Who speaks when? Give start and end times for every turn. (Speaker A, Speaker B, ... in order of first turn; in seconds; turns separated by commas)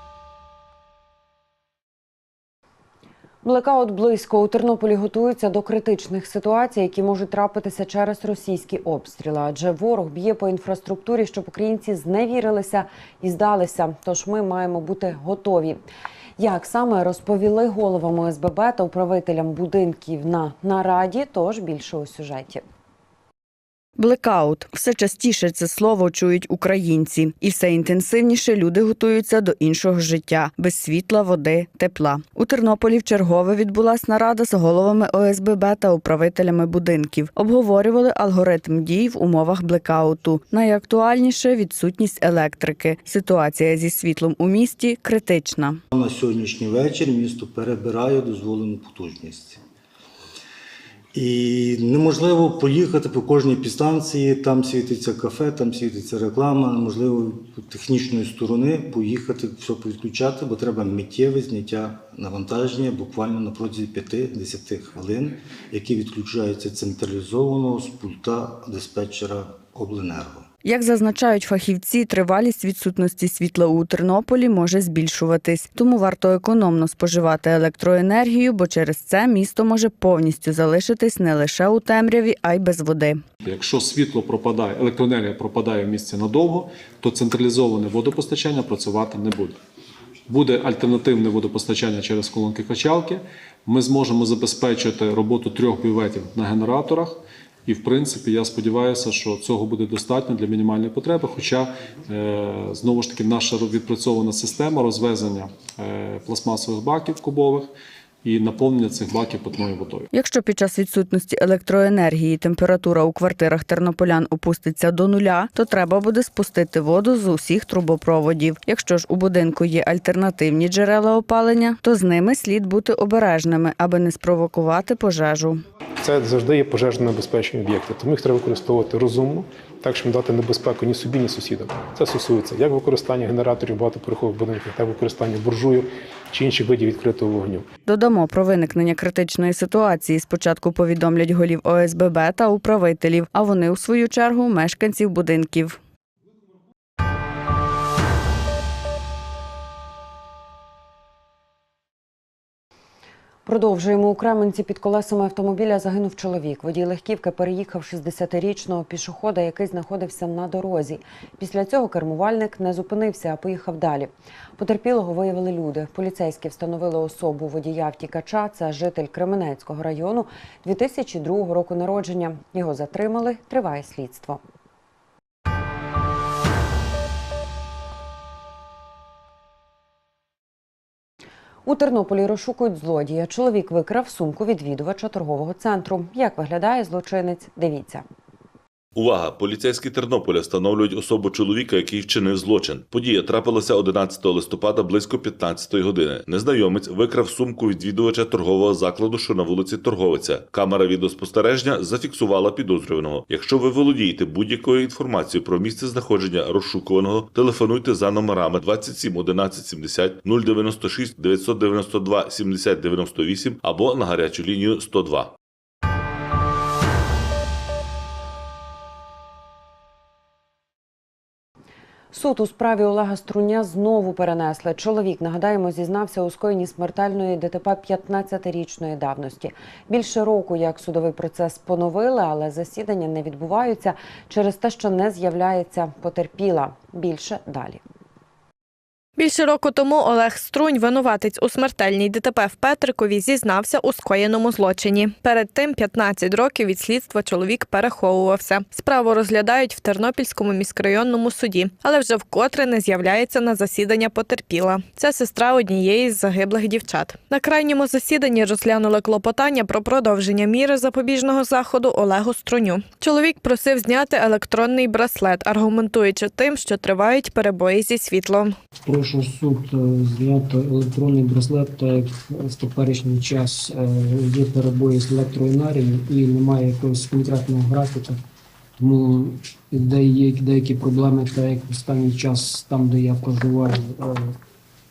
Speaker A: 3.4-15.8, Speaker A: 16.4-22.6, Speaker B: 24.0-45.8, Speaker C: 45.9-49.6, Speaker C: 51.1-70.5, Speaker B: 70.6-83.2, Speaker D: 83.4-89.6, Speaker D: 90.3-107.7, Speaker D: 108.2-110.1, Speaker B: 110.1-125.6, Speaker E: 126.0-137.7, Speaker B: 137.8-145.8, Speaker A: 153.4-174.4, Speaker A: 181.6-188.0, Speaker F: 188.9-215.3, Speaker A: 222.1-237.8, Speaker G: 239.2-268.5, Speaker H: 268.8-278.2, Speaker H: 278.8-284.4